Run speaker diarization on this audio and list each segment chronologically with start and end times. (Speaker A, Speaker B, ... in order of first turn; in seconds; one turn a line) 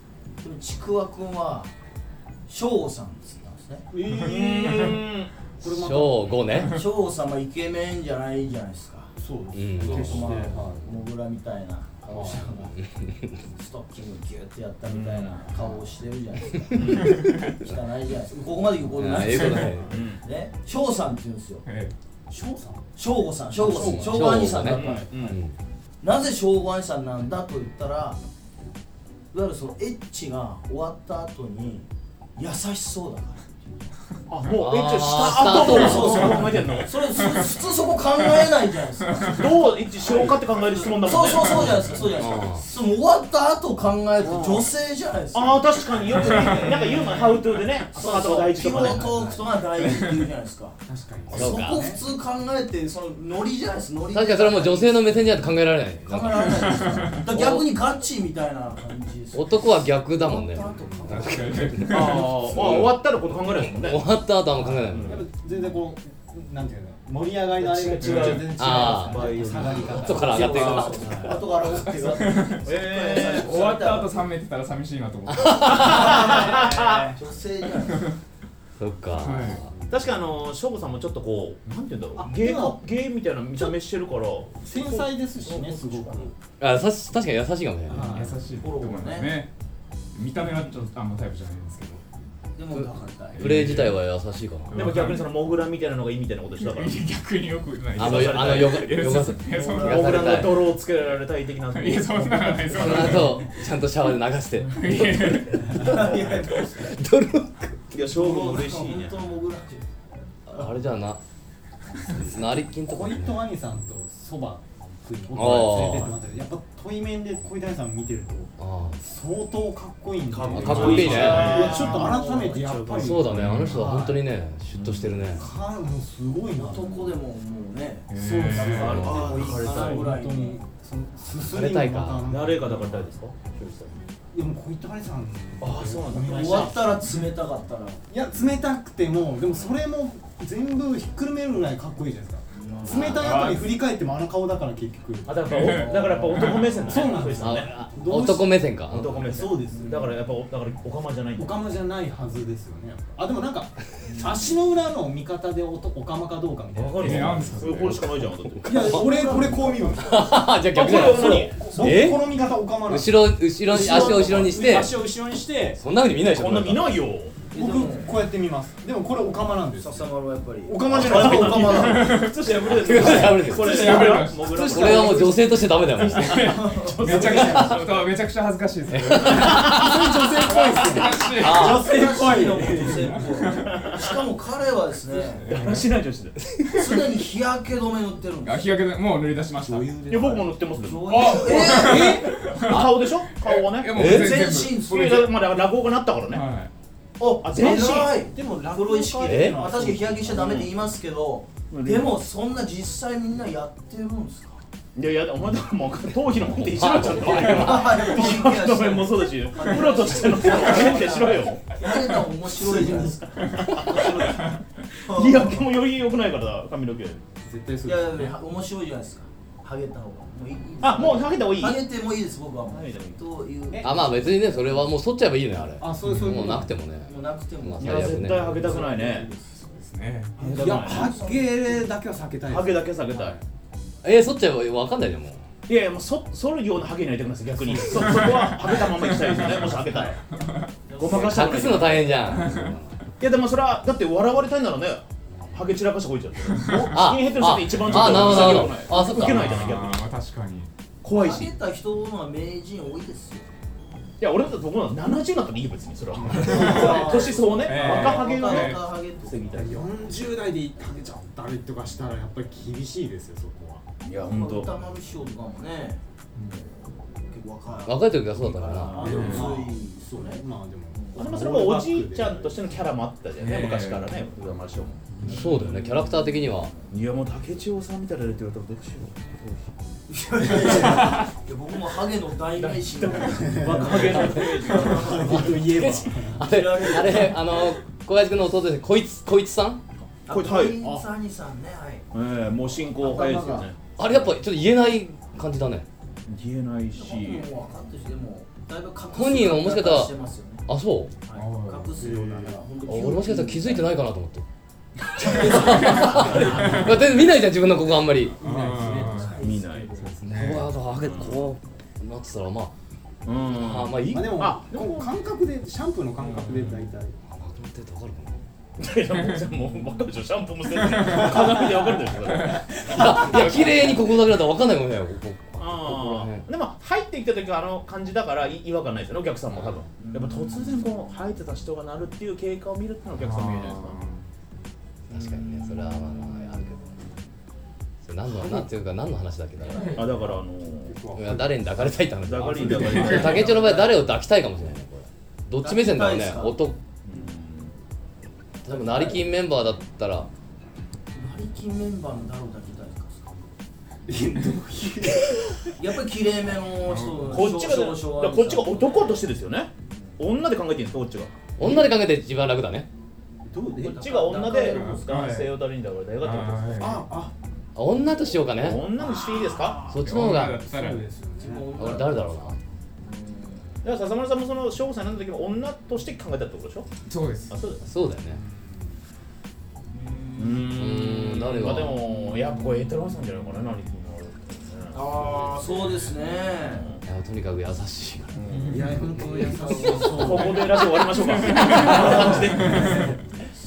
Speaker A: 0.4-1.7
Speaker A: 2.5-3.9
Speaker B: 3.9-5.0
Speaker C: 4.1-5.3
Speaker D: 4.6-4.9
Speaker B: 5.6-6.3
Speaker E: 5.7-6.8
Speaker A: 6.6-9.2
Speaker B: 9.2-10.8
Speaker E: 9.5-10.5
Speaker A: 9.8-12.8
Speaker B: 12.1-12.5
Speaker E: 12.8-13.4
Speaker A: 13.5-21.6
Speaker C: 14.9-15.4
Speaker B: 15.5-15.8
Speaker C: 16.7-17.1
Speaker D: 16.8-17.5
Speaker B: 18.6-19.7
Speaker E: 18.9-19.9
Speaker C: 19.9-20.2
Speaker D: 21.6-21.9
Speaker B: 22.3-22.9
Speaker A: 23.0-25.3
Speaker B: 23.5-24.6
Speaker E: 23.6-25.6
Speaker C: 24.6-25.4
Speaker A: 26.0-28.2
Speaker A: 29.3-33.9
Speaker C: 34.3-36.9
Speaker E: 34.5-36.5
Speaker A: 35.3-55.5
Speaker D: 36.4-37.6
Speaker D: 39.1-39.4
Speaker C: 39.2-41.9
Speaker E: 41.9-42.6
Speaker B: 44.2-44.7
Speaker C: 45.3-49.1
Speaker D: 46.2-46.6
Speaker B: 48.8-49.5
Speaker D: 49.8-50.2
Speaker B: 50.9-52.0
Speaker E: 51.3-51.9
Speaker E: 54.1-57.7
Speaker A: 56.1-61.9
Speaker D: 56.6-57.2
Speaker E: 59.3-62.8
Speaker B: 60.8-61.2
Speaker D: 61.1-62.9
Speaker C: 61.9-64.0
Speaker E: 63.5-65.3
Speaker D: 64.9-65.2
Speaker B: 65.0-71.5
Speaker C: 67.6-70.1
Speaker D: 68.0-68.6
Speaker E: 68.5-71.4
Speaker A: 69.1-74.3
Speaker D: 70.4-77.2
Speaker C: 72.7-73.6
Speaker E: 75.3-76.3
Speaker A: 75.8-78.1
Speaker C: 76.2-77.1
Speaker E: 78.8-79.7
Speaker D: 79.2-79.6
Speaker C: 79.9-86.0
Speaker B: 82.2-82.8
Speaker B: 84.6-86.3
Speaker A: 85.5-86.3
Speaker E: 86.6-88.2
Speaker B: 87.9-88.4
Speaker D: 88.1-89.5
Speaker A: 88.6-89.4
Speaker D: 90.2-92.0
Speaker A: 92.6-93.8
Speaker E: 92.7-94.8
Speaker D: 93.3-94.0
Speaker D: 94.7-95.3
Speaker C: 94.7-97.0
Speaker D: 96.6-100.4
Speaker E: 98.0-100.7
Speaker C: 98.0-98.9
Speaker A: 99.5-100.5
Speaker C: 99.8-103.5
Speaker D: 101.7-103.4
Speaker E: 102.7-107.8
Speaker D: 104.6-105.9
Speaker A: 105.7-106.9
Speaker B: 105.8-106.1
Speaker C: 107.9-109.2
Speaker A: 108.0-109.9
Speaker E: 110.5-111.2
Speaker E: 112.1-113.5
Speaker B: 112.8-124.2
Speaker E: 115.3-116.2
Speaker E: 118.6-119.0
Speaker C: 120.3-123.3
Speaker E: 120.5-121.7
Speaker D: 120.6-121.4
Speaker A: 120.8-122.6
Speaker E: 122.9-125.5
Speaker D: 123.3-123.8
Speaker C: 124.7-125.4
Speaker B: 125.3-127.2
Speaker A: 126.5-130.6
Speaker D: 128.1-129.1
Speaker B: 128.1-132.9
Speaker C: 128.5-130.2
Speaker E: 131.4-132.3
Speaker C: 132.3-133.9
Speaker B: 134.3-136.9
Speaker C: 135.6-136.8
Speaker A: 136.2-138.0
Speaker B: 138.1-148.6
Speaker A: 142.5-143.6
Speaker D: 143.1-143.6
Speaker C: 145.3-147.7
Speaker D: 145.4-147.0
Speaker A: 146.8-147.1
Speaker E: 147.3-149.1
Speaker C: 148.9-151.6
Speaker A: 149.2-150.1
Speaker B: 149.4-149.8
Speaker B: 151.4-157.5
Speaker A: 154.1-154.6
Speaker C: 156.8-158.9
Speaker D: 157.0-158.1
Speaker E: 157.1-162.2
Speaker B: 158.7-165.8
Speaker A: 158.7-160.3
Speaker C: 160.7-161.9
Speaker A: 161.3-161.8
Speaker E: 162.8-165.1
Speaker A: 163.9-164.3
Speaker E: 165.7-167.0
Speaker C: 166.3-167.4
Speaker A: 167.5-168.2
Speaker B: 167.5-170.1
Speaker A: 169.8-172.3
Speaker B: 170.6-172.0
Speaker C: 170.9-175.3
Speaker D: 171.4-172.4
Speaker E: 172.6-176.8
Speaker D: 173.0-174.9
Speaker B: 174.6-176.0
Speaker D: 176.0-179.9
Speaker A: 176.1-177.1
Speaker C: 176.7-178.0
Speaker B: 177.0-177.8
Speaker E: 177.5-177.8
Speaker E: 178.9-180.1
Speaker B: 179.2-183.4
Speaker D: 180.5-181.8
Speaker E: 181.3-181.9
Speaker A: 181.4-185.5
Speaker D: 182.8-183.9
Speaker C: 183.7-184.0
Speaker D: 185.1-185.9
Speaker C: 185.5-186.4
Speaker E: 186.4-186.8
Speaker A: 186.7-188.8
Speaker D: 188.4-190.0
Speaker B: 189.6-190.6
Speaker C: 190.1-196.4
Speaker A: 190.8-192.3
Speaker D: 191.1-195.2
Speaker B: 191.8-192.2
Speaker E: 193.9-194.4
Speaker A: 194.0-195.3
Speaker D: 196.3-196.7
Speaker A: 197.2-204.6
Speaker C: 197.4-198.2
Speaker B: 197.4-200.7
Speaker E: 199.2-199.6
Speaker C: 200.3-200.7
Speaker C: 201.7-202.2
Speaker C: 205.0-211.7
Speaker E: 206.6-208.1
Speaker A: 207.2-215.6
Speaker D: 210.5-210.9
Speaker B: 212.6-213.2
Speaker D: 213.4-214.6
Speaker C: 215.0-217.2
Speaker B: 217.4-218.3
Speaker A: 217.8-224.3
Speaker C: 220.8-221.8
Speaker C: 222.7-223.2
Speaker B: 223.7-224.6
Speaker E: 223.8-228.6
Speaker B: 225.8-226.8
Speaker D: 226.0-226.6
Speaker A: 227.1-229.6
Speaker C: 227.8-229.3
Speaker D: 229.6-230.5
Speaker C: 230.4-231.2
Speaker B: 230.4-233.4
Speaker A: 230.5-231.9
Speaker C: 232.5-233.4
Speaker E: 234.0-235.5
Speaker C: 235.7-240.2
Speaker D: 237.9-240.7
Speaker A: 240.9-242.4
Speaker C: 241.0-242.2
Speaker E: 241.0-243.0
Speaker D: 242.3-242.8
Speaker C: 243.2-250.0
Speaker D: 246.5-247.0
Speaker E: 246.9-249.5
Speaker D: 247.8-250.7
Speaker C: 251.0-251.5
Speaker A: 251.1-253.5
Speaker C: 254.2-259.9
Speaker B: 256.2-257.2
Speaker D: 256.2-257.0
Speaker A: 256.3-259.8
Speaker D: 257.6-258.8
Speaker B: 259.5-263.9
Speaker C: 264.0-264.7
Speaker A: 264.2-270.4
Speaker D: 266.4-266.6
Speaker E: 267.9-269.1
Speaker C: 268.5-269.5
Speaker B: 268.9-272.8
Speaker D: 269.0-269.5
Speaker C: 271.1-275.0
Speaker D: 273.4-274.2
Speaker A: 275.2-275.9
Speaker E: 275.2-276.7
Speaker A: 276.4-276.9
Speaker C: 276.9-279.6
Speaker A: 280.1-285.7
Speaker D: 280.6-281.3
Speaker C: 282.6-285.4
Speaker B: 283.4-286.5
Speaker E: 285.5-289.8
Speaker A: 286.4-287.7
Speaker A: 290.3-292.1
Speaker C: 290.3-290.8
Speaker B: 290.6-291.1
Speaker C: 292.1-294.3
Speaker A: 293.0-293.7
Speaker E: 294.0-295.9
Speaker C: 296.3-297.5
Speaker A: 296.9-300.6
Speaker E: 299.1-300.1
Speaker E: 300.7-301.1
Speaker A: 301.2-303.9
Speaker D: 301.4-302.2
Speaker B: 302.0-302.6
Speaker E: 302.9-304.4
Speaker A: 305.2-307.0
Speaker E: 305.3-308.4
Speaker B: 305.9-307.0
Speaker D: 306.5-306.8
Speaker B: 308.4-309.4
Speaker D: 308.4-309.4
Speaker A: 308.8-310.2
Speaker C: 309.4-310.0
Speaker D: 310.0-310.7
Speaker E: 310.3-312.7
Speaker C: 311.0-311.4
Speaker C: 313.3-315.1
Speaker E: 313.5-314.5
Speaker B: 314.1-317.2
Speaker D: 316.4-316.8
Speaker E: 317.3-318.4
Speaker C: 318.8-324.0
Speaker D: 320.8-321.4
Speaker D: 322.3-322.7
Speaker E: 322.8-326.4
Speaker A: 323.0-323.9
Speaker C: 325.6-334.0
Speaker A: 330.0-330.8
Speaker D: 333.2-334.3
Speaker E: 335.1-336.9
Speaker A: 335.1-337.2
Speaker E: 338.0-340.0
Speaker A: 339.7-340.1
Speaker C: 339.8-341.0
Speaker B: 340.8-343.0
Speaker E: 341.1-346.8
Speaker C: 342.2-343.9
Speaker D: 342.6-343.4
Speaker A: 343.1-343.9
Speaker A: 345.6-346.6
Speaker C: 347.0-347.7
Speaker E: 348.6-350.3
Speaker A: 348.7-349.2
Speaker A: 351.1-353.4
Speaker B: 354.1-355.8
Speaker A: 355.8-359.3
Speaker D: 356.8-357.6
Speaker C: 357.3-361.3
Speaker E: 361.6-362.9
Speaker B: 363.5-364.1
Speaker A: 363.8-365.1
Speaker C: 364.0-367.1
Speaker D: 364.6-365.6
Speaker D: 366.2-367.1
Speaker B: 366.8-367.3
Speaker E: 367.8-368.9
Speaker C: 368.5-369.8
Speaker B: 369.0-371.7
Speaker E: 369.9-370.7
Speaker D: 370.0-371.1
Speaker A: 371.4-373.7
Speaker E: 371.7-372.6
Speaker C: 373.8-376.9
Speaker D: 377.1-377.7
Speaker C: 377.5-377.8
Speaker E: 377.8-378.4
Speaker B: 378.3-378.9
Speaker A: 379.9-380.8
Speaker C: 380.4-386.0
Speaker E: 380.7-382.0
Speaker A: 381.6-382.0
Speaker A: 384.9-386.9
Speaker C: 386.6-387.0
Speaker E: 387.1-390.2
Speaker C: 388.3-389.0
Speaker D: 388.5-389.1
Speaker B: 388.7-390.7
Speaker A: 389.4-390.6
Speaker C: 389.8-393.2
Speaker D: 391.2-393.1
Speaker B: 391.8-393.1
Speaker A: 391.8-393.2